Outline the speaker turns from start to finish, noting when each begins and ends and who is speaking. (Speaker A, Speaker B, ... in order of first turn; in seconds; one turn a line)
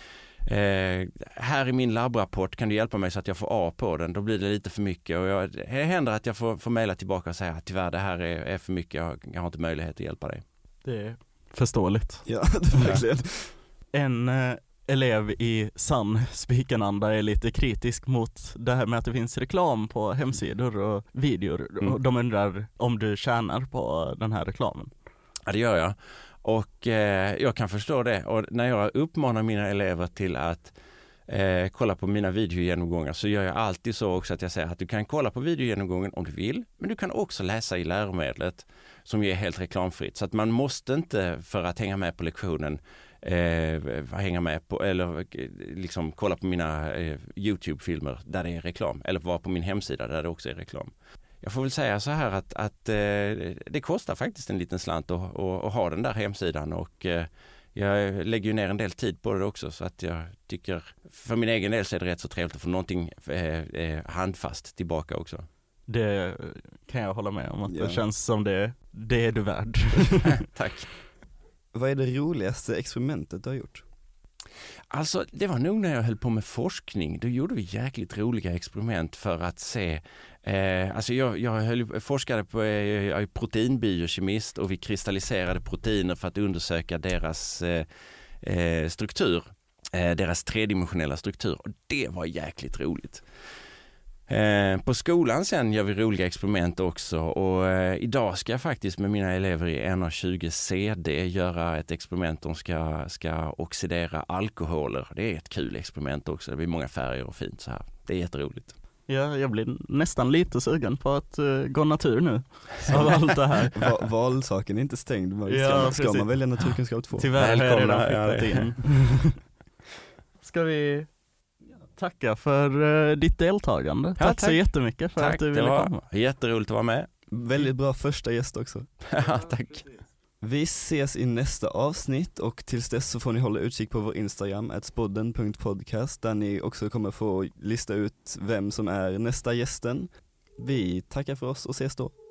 Speaker A: 0.5-10.4
Speaker B: 10.8-13.0
Speaker C: 12.2-13.5
Speaker B: 13.9-24.9
Speaker A: 25.5-30.7
Speaker A: 31.3-65.5
Speaker B: 65.9-70.5
Speaker C: 67.7-68.0
Speaker A: 70.4-70.9
Speaker C: 71.7-73.8
Speaker A: 74.9-87.9
Speaker A: 88.4-93.2
Speaker A: 94.3-108.7
Speaker B: 109.1-113.8
Speaker C: 113.6-117.3
Speaker B: 115.5-119.4
Speaker A: 117.3-118.8
Speaker B: 120.4-121.1
Speaker B: 121.9-126.0
Speaker A: 124.2-127.1
Speaker C: 127.3-128.9
Speaker A: 129.1-129.9
Speaker C: 130.4-140.1
Speaker C: 140.6-142.1